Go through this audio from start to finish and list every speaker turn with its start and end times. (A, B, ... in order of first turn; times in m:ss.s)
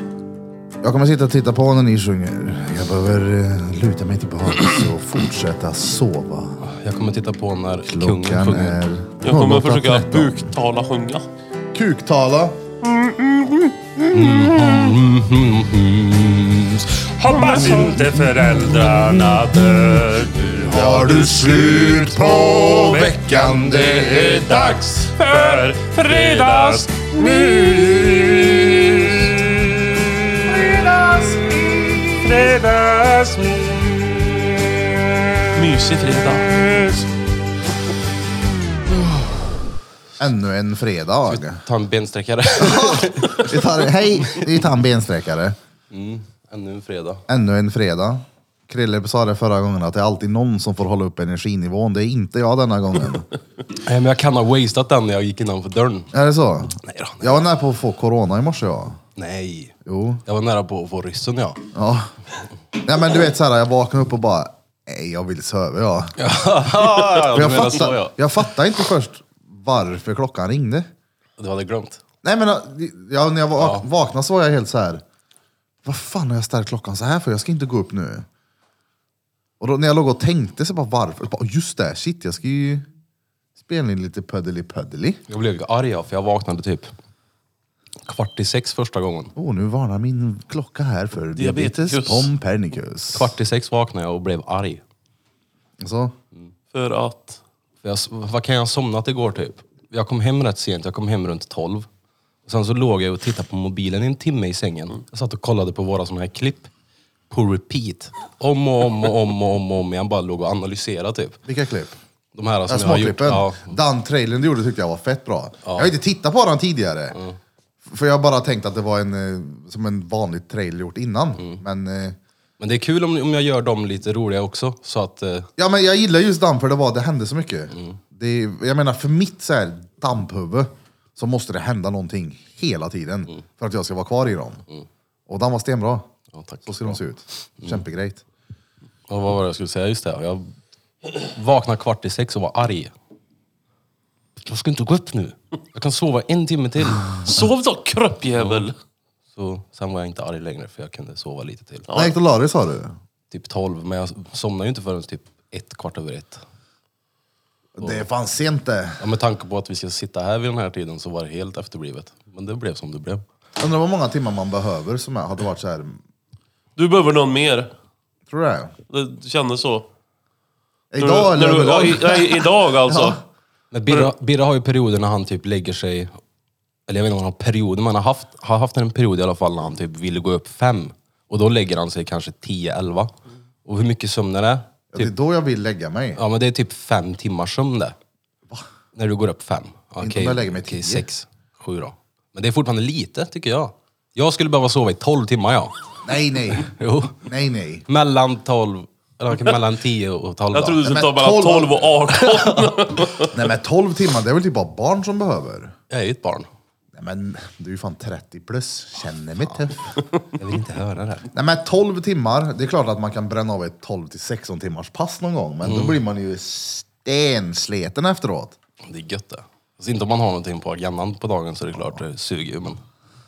0:00.8-0:06.7 A
0:06.6-0:08.8 B
0:07.8-0:10.5 A
0:09.2-0:11.2 C
0:11.7-0:12.6 A
0:13.0-0:13.7 D
0:14.1-0:17.0 B
0:17.0-0:35.7 D
0:20.6-0:24.8 A
0:30.6-0:31.4 A
0:35.5-0:36.5 C
0:36.3-0:37.1 D
0:40.2-0:41.6 A
0:41.3-0:44.4 B
0:42.6-0:45.6 A
0:45.9-0:47.2 B
0:47.3-0:53.3 A
0:53.7-0:56.1 B
0:56.1-0:59.0 A
0:56.7-0:57.4 B
0:59.2-1:01.7 B
0:59.8-1:00.2 A
1:01.7-1:02.1 A
1:02.8-1:06.2 A
1:06.2-1:08.2 B
1:07.1-1:10.9 A
1:11.4-1:12.0 B
1:12.2-1:15.0 A
1:13.6-1:13.8 B
1:15.8-1:18.2 A
1:19.6-1:22.8 A
1:23.6-1:25.2 A
1:25.3-1:26.9 B
1:28.0-1:29.3 B
1:29.3-1:33.3 A
1:31.3-1:32.3 C
1:33.1-1:34.8 B
1:35.8-1:36.1 A
1:36.7-1:37.4 C
1:37.8-1:41.9 B
1:42.4-1:46.7 B
1:47.3-1:51.4 B
1:51.4-1:52.0 A
1:52.3-1:53.8 B
1:52.7-1:57.2 A
1:55.6-1:55.9 B
1:57.1-1:57.4 B
1:57.8-2:02.2 A
2:01.4-2:01.6 B
2:02.6-2:05.5 B
2:05.6-2:14.6 A
2:15.3-2:16.1 A
2:16.3-2:17.0 B
2:16.6-2:18.2 A
2:19.1-2:20.5 B
2:21.1-2:22.9 B
2:24.4-2:27.1 B
2:27.0-2:27.3 A
2:27.2-2:28.7 C
2:28.4-2:28.7 B
2:29.3-2:31.9 B
2:31.9-2:32.1 C
2:31.9-2:33.0 A
2:33.3-2:36.4 B
2:37.8-2:39.0 A
2:39.0-2:43.2 B
2:43.6-2:46.0 A
2:46.8-2:47.7 C
2:48.3-2:48.7 A
2:48.9-2:49.9 C
2:50.9-2:53.2 A
2:51.0-2:53.2 C
2:53.7-2:56.1 B
2:56.9-3:03.1 B
3:03.6-3:05.1 B
3:04.9-3:06.2 A
3:06.1-3:08.0 B
3:08.9-3:15.7 B
3:10.0-3:11.1 A
3:16.0-3:16.7 A
3:16.5-3:17.2 B
3:17.2-3:17.8 A
3:17.9-3:20.8 B
3:20.5-3:23.3 C
3:20.8-3:21.9 A
3:23.3-3:25.7 A
3:25.9-3:26.5 B
3:26.9-3:30.0 A
3:30.4-3:31.3 B
3:31.3-3:38.5 A
3:35.6-3:36.0 B
3:38.8-3:42.8 B